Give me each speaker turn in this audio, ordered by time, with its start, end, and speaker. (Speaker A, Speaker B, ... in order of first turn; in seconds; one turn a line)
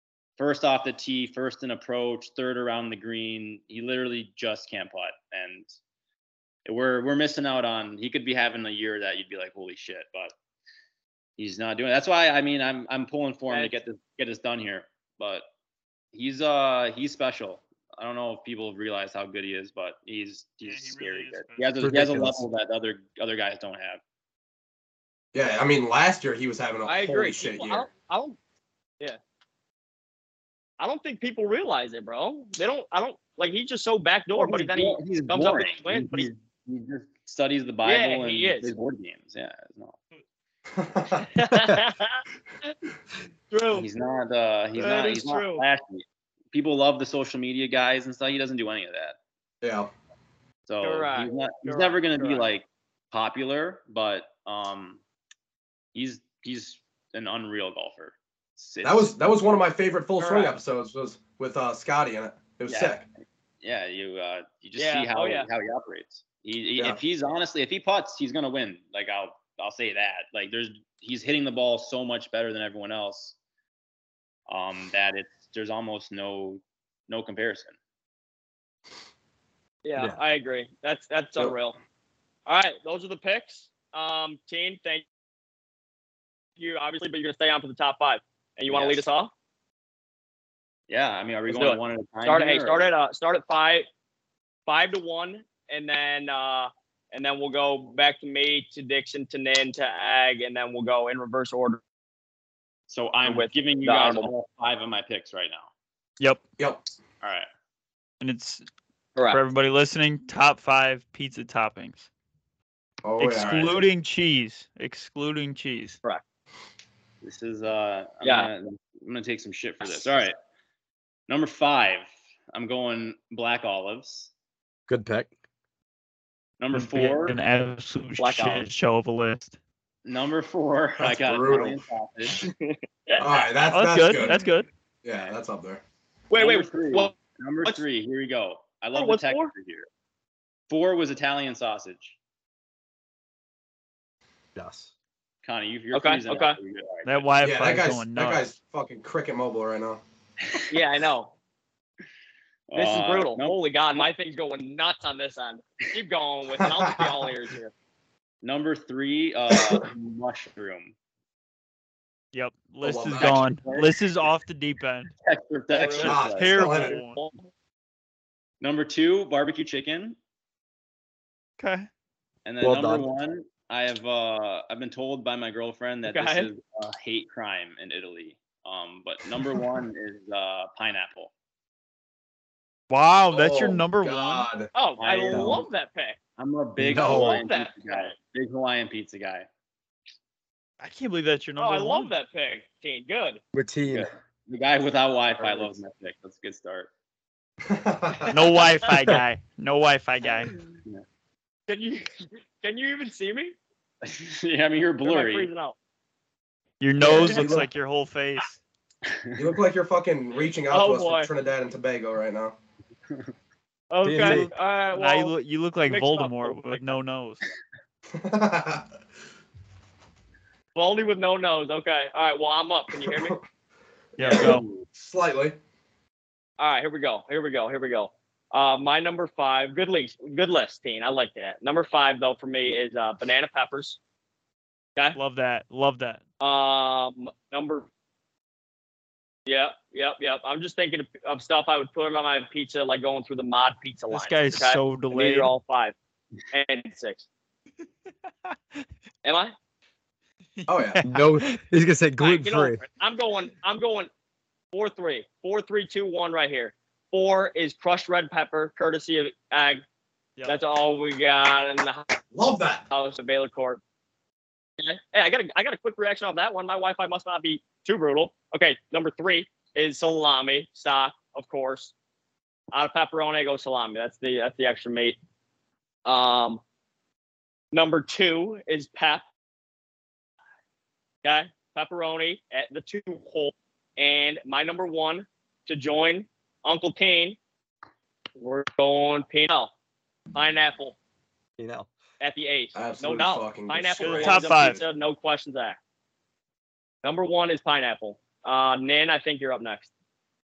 Speaker A: 0.4-5.7
Speaker A: 6.7-10.3
Speaker A: 11.4-15.4
Speaker A: 16.1-24.0
Speaker B: 20.7-21.9
Speaker C: 21.8-22.4
Speaker D: 25.3-27.9
Speaker E: 26.9-28.4
Speaker E: 30.8-36.3
Speaker A: 34.4-40.0
Speaker E: 37.8-38.7
Speaker D: 40.8-41.3
Speaker E: 41.3-42.7
Speaker E: 43.5-43.9
Speaker A: 43.7-49.2
Speaker E: 44.8-45.6
Speaker D: 49.6-49.9
Speaker A: 50.7-55.0
Speaker E: 50.8-52.5
Speaker A: 56.0-59.2
Speaker D: 58.8-63.0
Speaker E: 60.2-60.5
Speaker A: 62.7-63.0
Speaker A: 63.6-73.4
Speaker E: 64.8-65.5
Speaker A: 74.5-77.8
Speaker E: 79.8-81.8
Speaker E: 82.5-85.0
Speaker E: 86.6-89.3
Speaker A: 88.7-89.0
Speaker A: 90.9-92.9
Speaker E: 91.5-93.9
Speaker E: 94.7-101.8
Speaker A: 102.9-105.7
Speaker E: 103.2-104.3
Speaker A: 107.2-107.5
Speaker B: 108.2-108.7
Speaker E: 109.2-109.4
Speaker B: 109.3-112.1
Speaker D: 113.0-113.6
Speaker B: 113.2-116.0
Speaker A: 113.4-113.8
Speaker A: 117.2-120.3
Speaker E: 118.2-118.5
Speaker E: 119.8-120.2
Speaker A: 121.3-124.3
Speaker C: 124.9-125.3
Speaker A: 126.6-127.4
Speaker B: 126.7-129.6
Speaker E: 128.2-128.7
Speaker A: 130.1-132.4
Speaker D: 131.0-131.8
Speaker E: 132.4-133.4
Speaker D: 133.2-134.4
Speaker B: 133.7-134.7
Speaker D: 135.0-135.8
Speaker E: 136.3-137.1
Speaker A: 136.4-139.9
Speaker E: 138.9-139.5
Speaker A: 140.7-142.2
Speaker C: 144.6-144.9
Speaker A: 145.4-147.3
Speaker E: 145.9-146.6
Speaker B: 147.1-148.4
Speaker D: 147.4-150.0
Speaker E: 150.7-151.3
Speaker A: 152.7-153.6
Speaker E: 152.7-157.7
Speaker D: 156.6-157.1
Speaker A: 158.4-160.9
Speaker D: 159.5-159.8
Speaker B: 162.3-165.1
Speaker D: 162.8-163.4
Speaker A: 163.2-164.0
Speaker A: 165.2-166.6
Speaker E: 165.7-167.5
Speaker B: 165.9-167.2
Speaker D: 166.0-167.0
Speaker A: 168.6-170.2
Speaker B: 171.6-171.9
Speaker A: 172.5-181.3
Speaker C: 172.6-173.1
Speaker E: 176.1-176.5
Speaker B: 182.9-184.5
Speaker D: 183.3-184.7
Speaker E: 184.7-186.2
Speaker A: 185.0-185.7
Speaker C: 185.3-185.6
Speaker A: 186.4-189.5
Speaker C: 186.8-187.4
Speaker E: 187.0-188.1
Speaker B: 190.8-192.1
Speaker E: 191.6-193.4
Speaker C: 193.5-194.1
Speaker A: 193.9-196.9
Speaker D: 195.4-195.8
Speaker D: 197.7-198.4
Speaker B: 198.3-200.6
Speaker E: 201.7-203.6
Speaker A: 204.0-205.5
Speaker E: 205.1-205.8
Speaker B: 206.8-208.6
Speaker D: 207.0-207.7
Speaker A: 207.2-207.5
Speaker A: 209.1-209.5
Speaker D: 209.4-212.6
Speaker E: 210.7-211.3
Speaker E: 213.9-215.3
Speaker C: 214.0-214.5
Speaker B: 214.1-217.4
Speaker E: 215.9-217.0
Speaker D: 218.1-218.9
Speaker E: 220.8-223.4
Speaker B: 224.2-224.7
Speaker D: 224.2-225.6
Speaker A: 224.4-224.8
Speaker E: 226.6-234.0
Speaker B: 235.2-236.2
Speaker E: 236.4-237.9
Speaker E: 239.5-245.9
Speaker B: 244.1-245.5
Speaker E: 246.5-247.3
Speaker B: 248.5-248.8
Speaker E: 249.2-249.5
Speaker B: 250.6-251.6
Speaker D: 250.7-251.0
Speaker C: 251.1-252.8
Speaker E: 252.2-254.1
Speaker E: 254.7-259.8
Speaker E: 260.5-262.1
Speaker D: 262.3-262.9
Speaker E: 262.9-263.8
Speaker E: 264.8-271.9
Speaker E: 272.7-275.2
Speaker E: 276.1-276.6
Speaker E: 277.7-279.2
Speaker E: 281.2-287.4
Speaker E: 288.4-289.7
Speaker E: 290.3-291.0
Speaker C: 291.6-291.9
Speaker E: 292.2-295.8
Speaker D: 292.8-294.8
Speaker B: 294.0-294.8
Speaker E: 297.0-299.9